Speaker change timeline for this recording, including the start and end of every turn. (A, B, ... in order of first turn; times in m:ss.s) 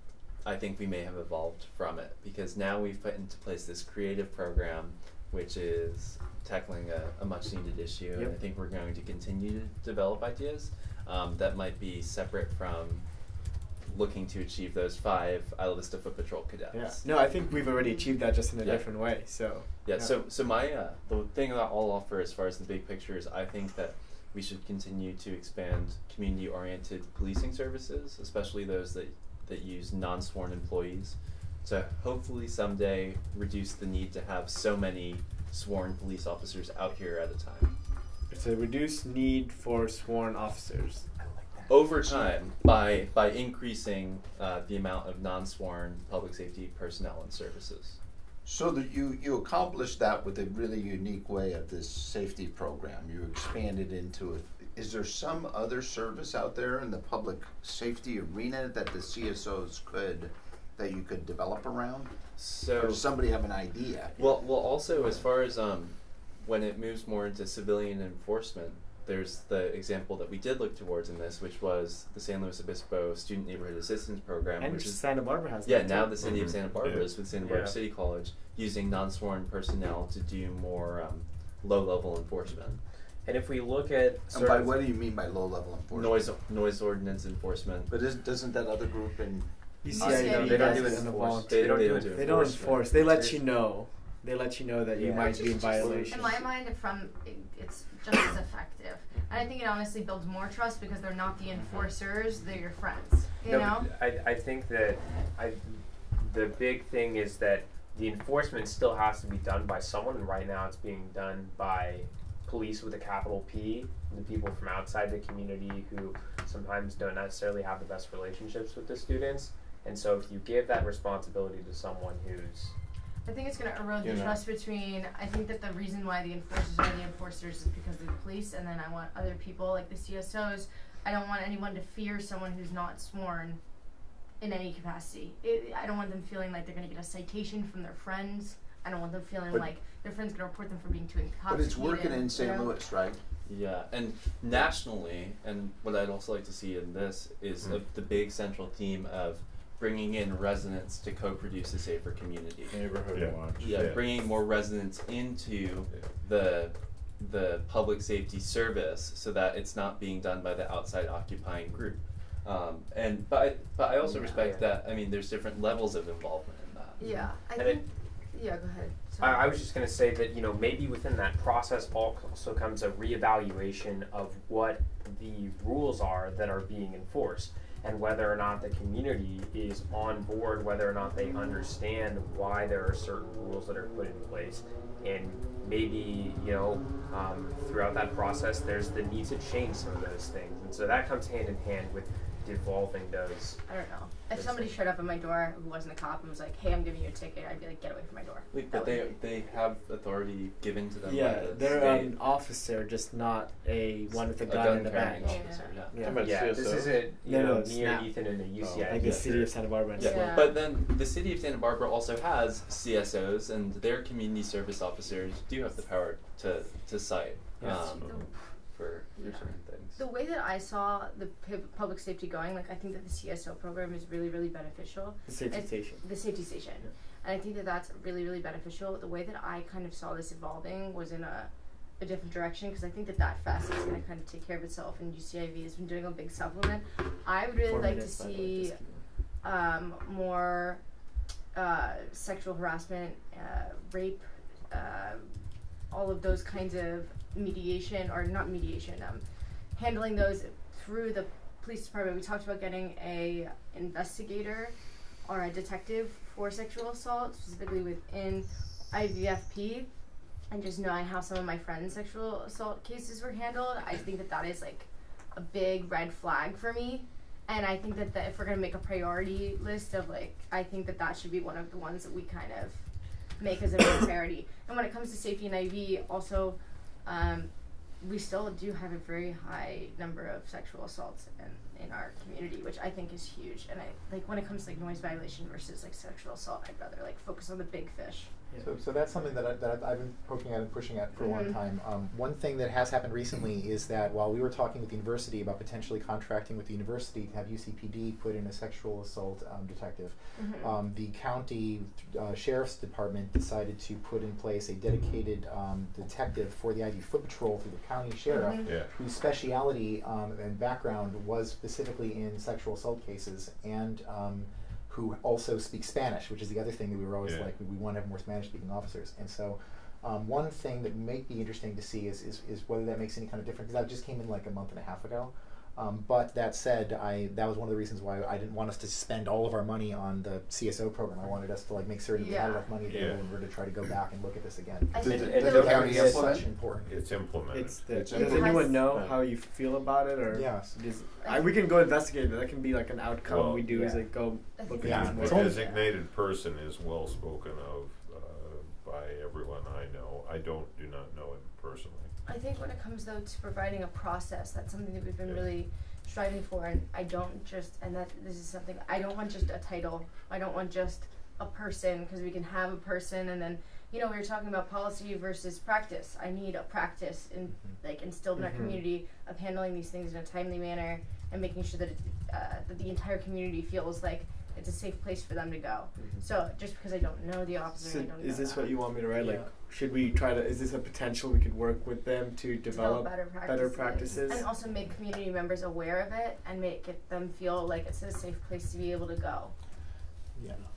0:00.4-0:13.1 A
0:13.8-0:17.0 A
0:16.7-0:20.2 B
0:18.6-0:19.1 A
0:19.8-0:37.7 A
0:38.3-0:41.0 B
0:41.2-0:41.7 C
0:41.7-0:48.0 A
0:42.0-0:42.4 D
0:48.4-1:02.1 D
1:02.4-1:03.1 A
1:02.7-1:04.1 D
1:04.2-1:22.8 A
1:14.6-1:16.1 B
1:16.2-1:17.1 E
1:17.4-1:17.7 F
1:23.2-1:24.9 F
1:24.3-1:26.3 D
1:25.9-1:27.9 A
1:27.9-1:30.9 D
1:29.8-1:36.4 B
1:30.0-1:33.4 F
1:30.0-1:31.0 G
1:31.3-1:33.3 A
1:35.0-1:35.5 F
1:35.2-1:43.9 G
1:35.7-1:36.4 H
1:43.4-2:02.7 F
2:03.2-2:13.6 G
2:04.0-2:04.4 H
2:14.4-2:22.7 G
2:21.5-2:23.2 D
2:23.4-2:32.8 A
2:32.7-2:33.9 H
2:33.1-2:34.2 E
2:33.6-2:47.1 A
2:44.0-2:44.7 F
2:47.0-2:49.5 G
2:47.6-2:47.8 F
2:49.2-3:13.6 F
3:13.7-3:19.1 G
3:14.3-3:14.8 F
3:18.5-3:22.2 A
3:21.0-3:26.4 B
3:24.1-3:26.0 A
3:24.9-3:25.9 G
3:26.0-3:27.1 H
3:26.1-3:29.6 F
3:27.2-3:28.1 B
3:28.6-3:29.4 H
3:28.9-3:30.4 B
3:30.0-3:30.6 G
3:30.0-3:40.0 A
3:37.6-3:37.9 B
3:38.0-3:38.2 E
3:38.0-3:38.3 G
3:39.1-3:58.8 G
3:45.3-3:46.0 B
3:57.6-3:59.0 B
3:59.4-4:00.8 G
4:01.5-4:05.3 G
4:05.9-4:09.2 G
4:09.7-4:14.7 G
4:15.2-4:19.9 G
4:20.5-4:32.8 G
4:33.4-4:48.3 G
4:48.6-5:36.9 C
4:51.2-4:51.6 G
5:00.4-5:00.7 G
5:08.3-5:08.7 G
5:08.6-5:08.9 E
5:17.2-5:17.5 E
5:32.2-5:32.7 G
5:32.9-5:33.2 E
5:34.9-5:35.9 G
5:35.0-5:36.4 D
5:35.1-5:36.4 F
5:36.7-5:37.9 E
5:37.5-5:45.5 B
5:37.9-5:38.8 D
5:38.1-5:38.9 G
5:38.9-5:39.2 H
5:40.3-5:40.7 C
5:41.2-5:41.5 G
5:43.2-5:43.7 E
5:43.7-5:44.1 F
5:44.6-5:45.8 G
5:44.8-5:45.6 C
5:44.8-5:52.1 E
5:52.2-6:18.8 G
6:08.3-6:08.8 B
6:16.0-6:16.2 F
6:17.8-6:24.5 B
6:19.1-6:19.5 C
6:22.7-6:29.5 G